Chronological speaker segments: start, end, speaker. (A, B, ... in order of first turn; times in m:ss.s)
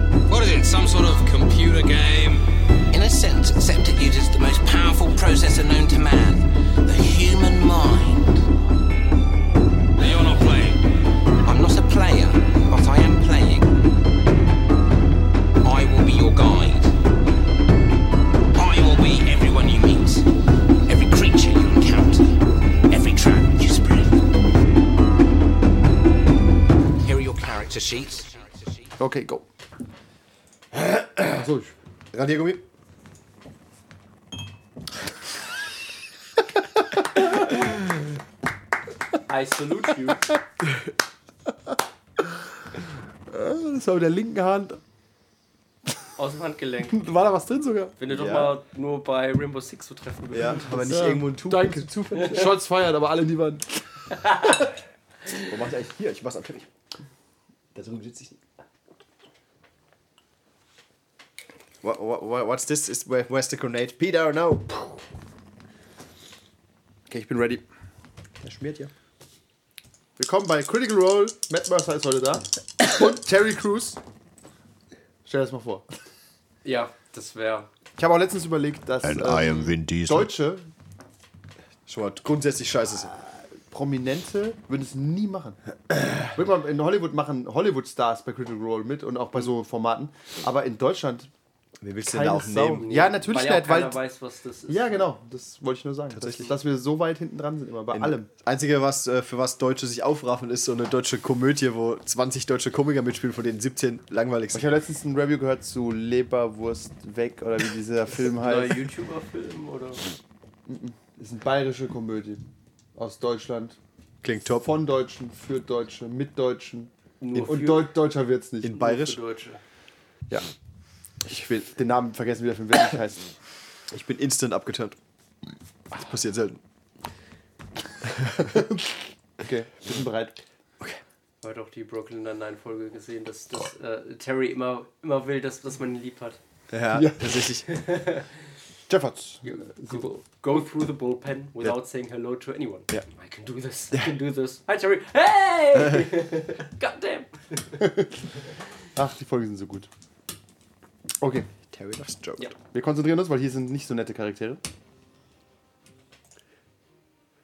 0:00.3-0:08.5 A
0:10.0-0:10.9 A
0:11.4-0:13.8 A
0:15.6-0:17.0 A
0:18.5-0:20.3 A
0:20.9-0:22.4 A
0:22.9-0:24.2 A
0:27.0-0:28.9 A
0:29.0-0:29.5 B
0:30.8-0:31.2 C
0:31.3-0:31.7 B
0:32.1-0:32.6 C
0:36.9-0:37.6 B
0:39.3-0:40.3 D
0:43.3-0:44.8 B
0:46.2-0:47.0 D
0:46.9-0:48.0 B
0:48.0-0:50.8 D
0:48.1-0:48.6 C
0:50.3-0:52.4 C
0:50.8-0:54.6 B
0:55.4-0:56.7 C
0:57.7-0:58.4 C
1:01.8-1:05.0 C
1:07.1-1:07.6 B
1:08.4-1:08.9 C
1:10.2-1:14.0 B
1:15.2-1:15.8 B
1:16.6-1:17.7 D
1:18.0-1:20.7 B
1:21.9-1:23.1 C
1:23.6-1:25.6 B
1:26.2-1:31.3 B
1:31.8-1:32.9 C
1:32.0-1:34.0 B
1:32.8-1:35.0 D
1:34.7-1:38.3 B
1:36.1-1:36.5 C
1:37.9-1:44.6 C
1:44.5-1:48.8 B
1:48.4-1:50.0 D
1:50.7-1:52.4 B
1:53.0-1:53.8 B
1:54.2-1:54.7 C
1:54.6-1:58.8 B
1:57.2-1:57.9 D
1:58.6-1:59.2 C
1:58.8-1:59.6 D
2:01.2-2:03.3 B
2:03.9-2:05.0 C
2:05.9-2:06.6 C
2:08.0-2:08.5 C
2:08.4-2:10.4 B
2:11.4-2:16.4 D
2:16.7-2:17.7 C
2:16.9-2:17.4 B
2:17.7-2:18.3 D
2:18.9-2:20.2 B
2:19.4-2:27.7 D
2:25.8-2:26.1 C
2:27.8-2:28.1 B
2:29.0-2:29.9 B
2:31.2-2:31.5 B
2:31.7-2:32.5 C
2:32.7-2:34.6 B